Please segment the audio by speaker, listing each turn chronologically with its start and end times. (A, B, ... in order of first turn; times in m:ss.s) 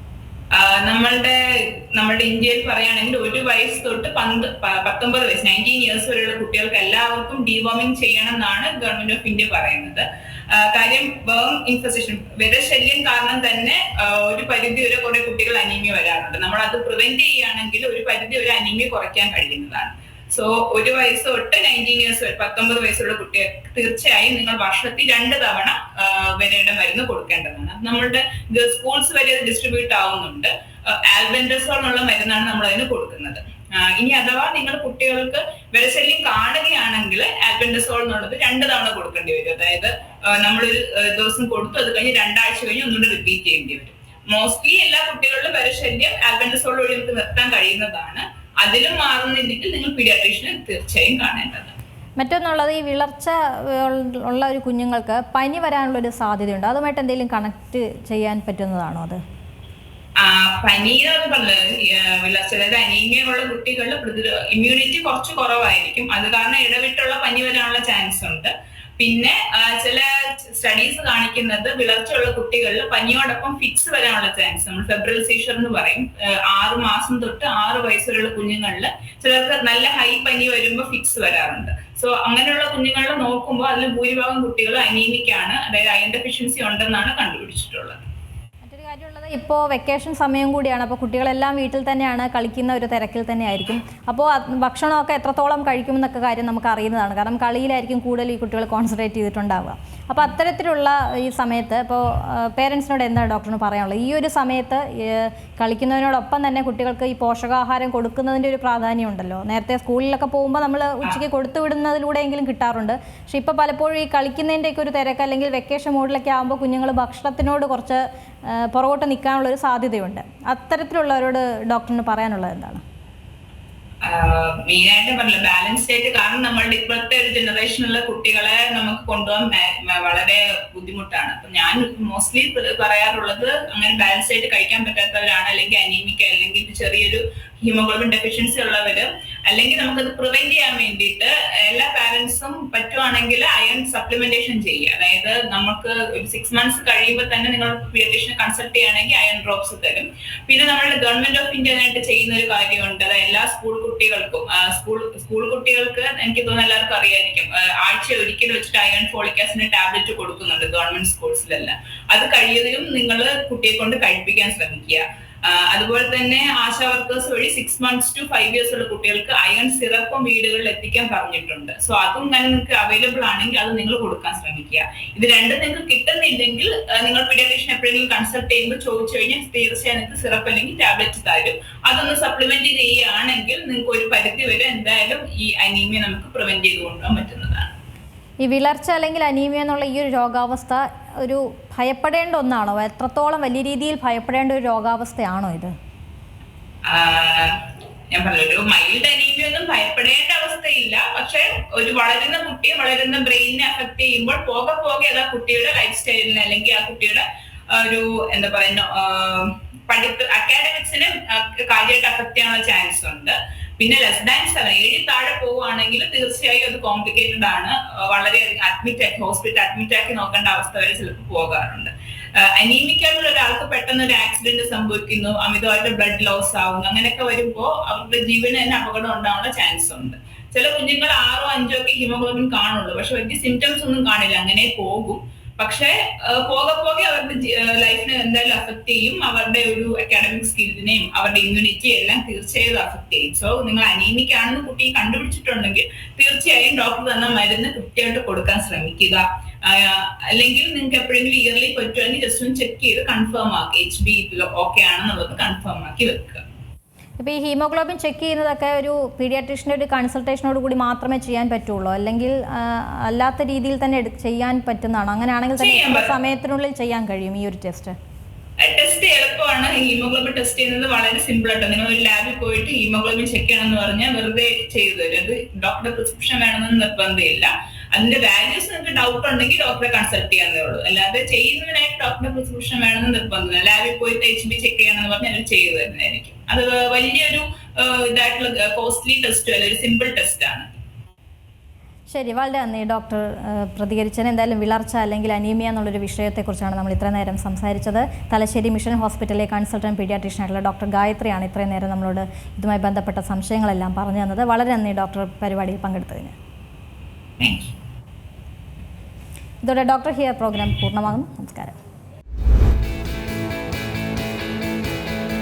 0:00.5-0:51.7 A
0:52.2-0:59.2 B
1:00.2-1:28.0 A
1:28.7-2:02.8 B
2:04.0-3:07.7 A
3:08.4-3:15.7 B
3:16.8-4:16.4 A
4:17.2-4:27.9 B
4:25.6-4:26.1 A
4:28.6-4:50.7 A
4:52.1-5:06.3 B
5:07.4-5:07.7 A
5:09.6-5:11.8 B